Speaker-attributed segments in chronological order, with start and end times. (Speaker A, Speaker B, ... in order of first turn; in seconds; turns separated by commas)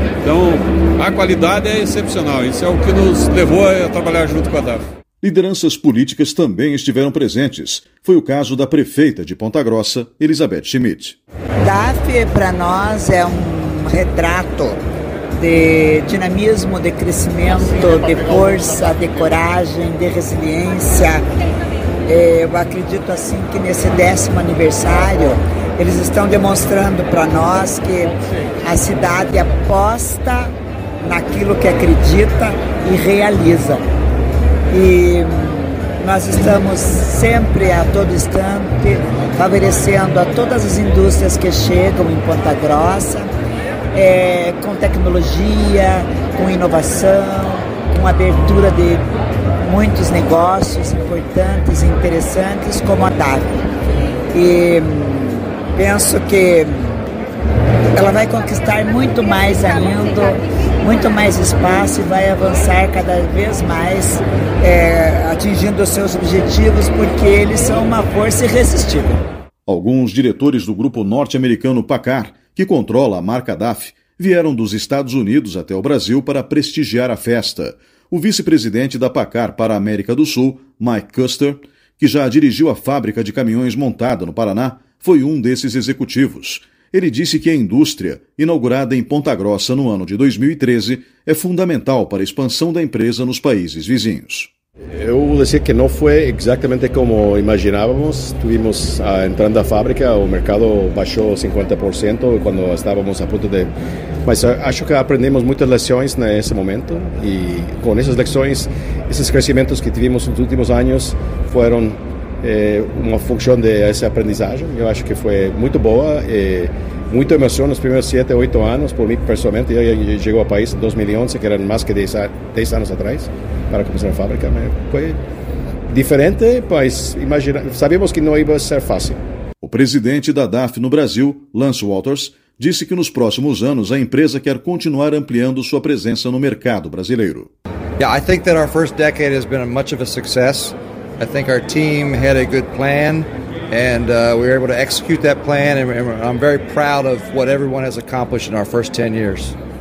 Speaker A: 0.2-4.9, Speaker B: 5.2-11.2, Speaker C: 11.6-14.8, Speaker C: 15.4-21.2, Speaker C: 22.1-33.8, Speaker C: 34.7-43.3, Speaker C: 43.9-49.0, Speaker C: 49.6-53.6, Speaker C: 54.3-57.0, Speaker C: 57.9-69.2, Speaker B: 69.7-94.5, Speaker D: 95.0-103.7, Speaker D: 104.2-125.2, Speaker D: 125.9-129.2, Speaker B: 129.6-137.5, Speaker E: 138.0-149.5